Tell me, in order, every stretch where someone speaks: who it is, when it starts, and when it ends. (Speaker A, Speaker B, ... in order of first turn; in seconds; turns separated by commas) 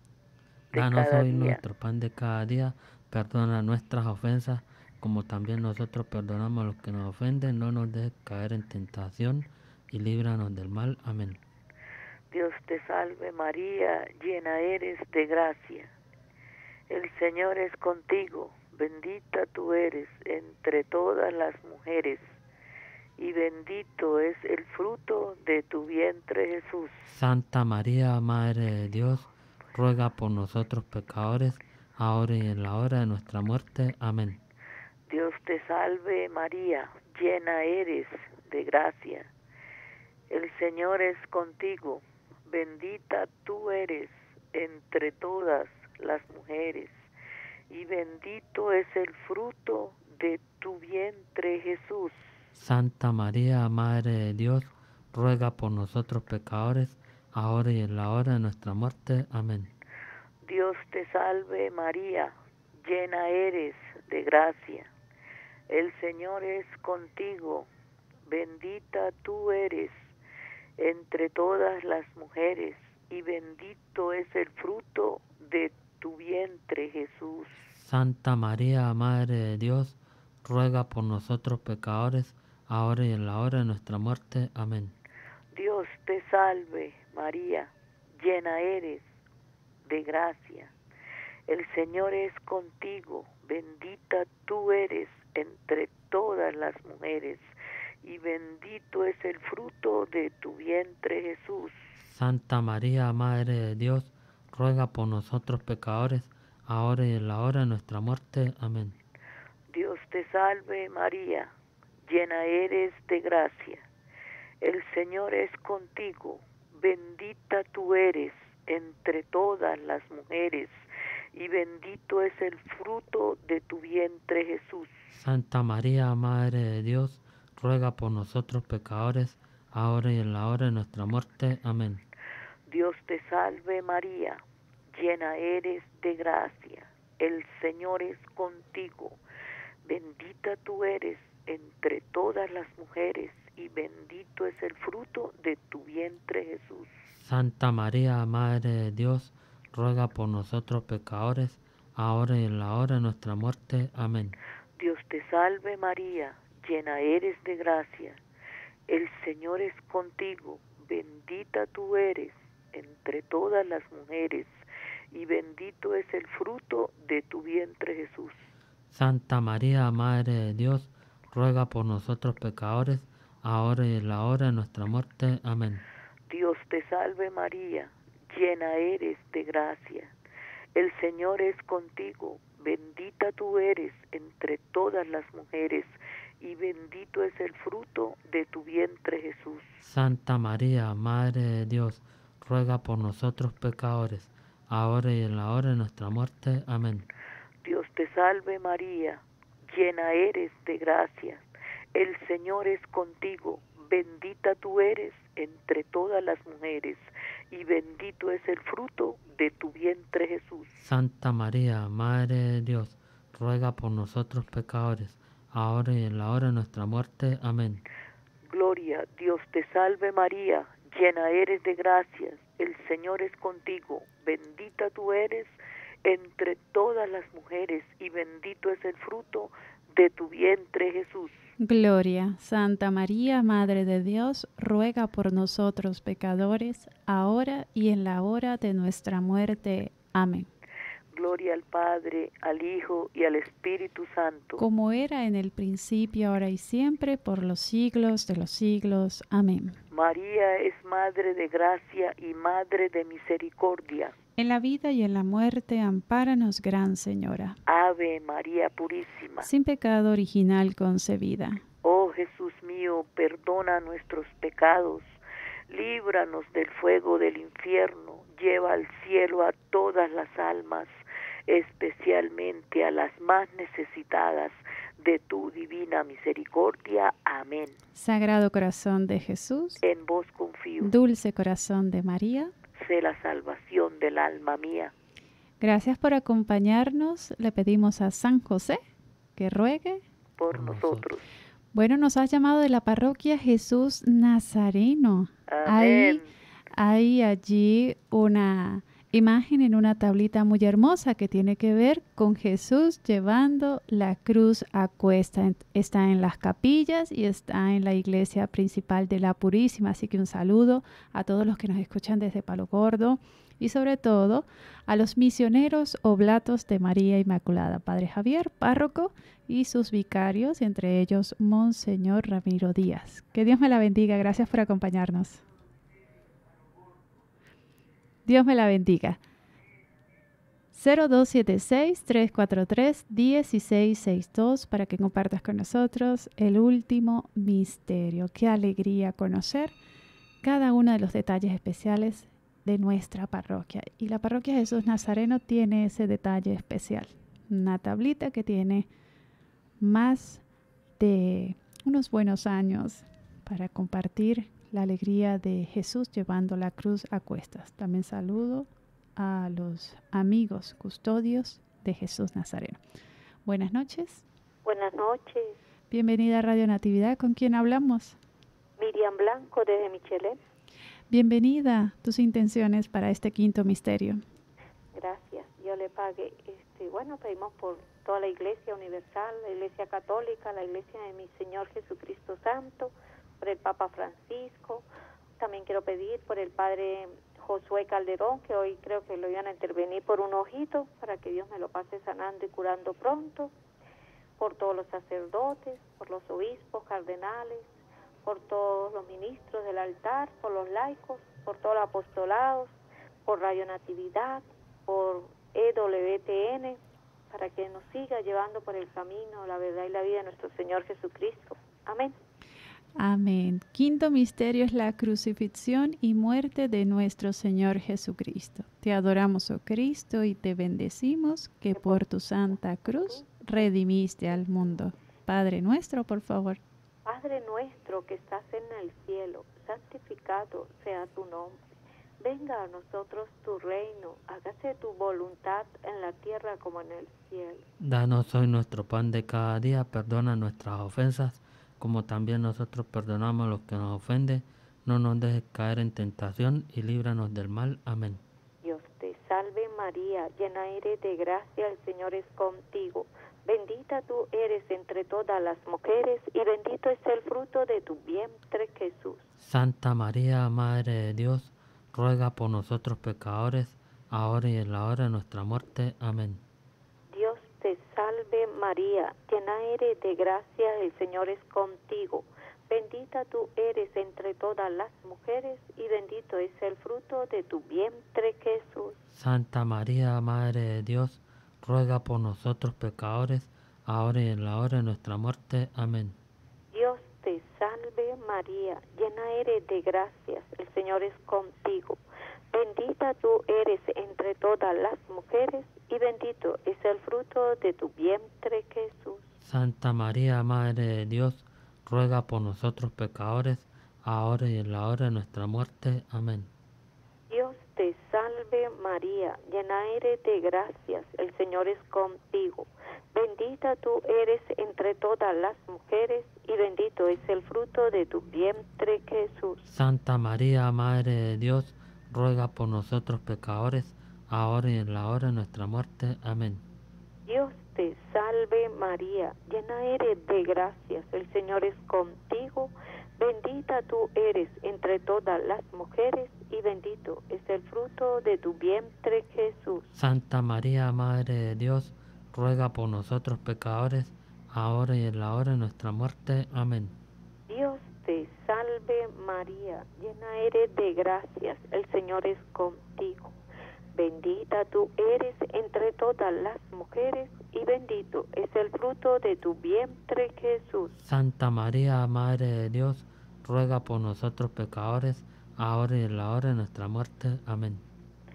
Speaker A: 0.7-11.4, Speaker B: 0.7-1.6, Speaker B: 12.3-15.9, Speaker B: 16.9-22.4, Speaker B: 23.2-27.1, Speaker A: 27.1-34.4, Speaker B: 35.1-39.3, Speaker B: 40.3-47.0, Speaker B: 47.7-52.2, Speaker A: 52.5-59.7, Speaker B: 60.4-64.9, Speaker B: 65.7-67.7, Speaker B: 68.3-70.1, Speaker B: 70.8-77.6, Speaker A: 77.7-84.9, Speaker B: 85.5-89.0, Speaker B: 89.8-90.7, Speaker B: 91.5-97.5, Speaker B: 98.0-101.7, Speaker A: 102.0-109.0, Speaker B: 109.7-111.5, Speaker B: 112.0-113.8, Speaker B: 114.6-120.8, Speaker B: 121.3-124.9, Speaker A: 125.1-132.0, Speaker B: 132.7-139.2, Speaker B: 139.8-146.9, Speaker A: 147.1-154.4, Speaker B: 154.8-158.2, Speaker B: 158.9-164.6, Speaker B: 165.1-168.4, Speaker A: 168.9-175.8, Speaker B: 176.3-180.1, Speaker B: 180.7-189.8, Speaker A: 189.8-197.1, Speaker B: 197.6-210.7, Speaker A: 210.8-217.8, Speaker B: 218.4-225.5, Speaker B: 226.0-231.3, Speaker C: 231.6-240.5, Speaker B: 241.1-244.6, Speaker C: 244.6-249.8, Speaker B: 249.9-254.1, Speaker C: 254.4-257.6, Speaker B: 257.6-259.5, Speaker C: 259.4-261.6, Speaker B: 261.8-265.1, Speaker B: 265.7-270.9, Speaker B: 271.5-277.8, Speaker C: 277.9-279.8, Speaker B: 279.8-280.9, Speaker C: 280.8-282.5, Speaker B: 282.8-284.9, Speaker C: 285.6-288.8, Speaker C: 289.4-290.0, Speaker B: 290.4-291.2, Speaker A: 290.5-291.1, Speaker C: 291.7-296.2, Speaker B: 295.5-296.3, Speaker C: 296.7-325.4, Speaker C: 328.2-329.2, Speaker C: 330.7-339.7, Speaker C: 340.4-348.9, Speaker C: 349.8-350.4, Speaker C: 351.0-362.8, Speaker C: 363.4-364.2, Speaker D: 364.6-365.5, Speaker C: 365.9-368.2, Speaker D: 368.8-370.4, Speaker C: 371.1-374.2, Speaker D: 374.9-384.8, Speaker D: 385.4-393.5, Speaker D: 394.4-397.7, Speaker D: 398.2-402.7, Speaker D: 403.2-406.8, Speaker D: 407.3-412.1, Speaker C: 413.0-426.6, Speaker D: 421.7-422.0, Speaker D: 423.1-423.7, Speaker D: 427.0-431.6, Speaker D: 432.2-437.6, Speaker A: 437.8-448.2, Speaker D: 448.6-459.2, Speaker A: 459.4-466.4, Speaker D: 467.1-479.0, Speaker A: 479.1-486.1, Speaker D: 486.7-499.3, Speaker A: 499.4-506.5, Speaker D: 507.3-519.6, Speaker A: 519.7-526.6, Speaker D: 527.2-539.8, Speaker A: 539.9-546.9, Speaker D: 547.5-553.3, Speaker D: 553.9-560.9, Speaker A: 561.0-567.8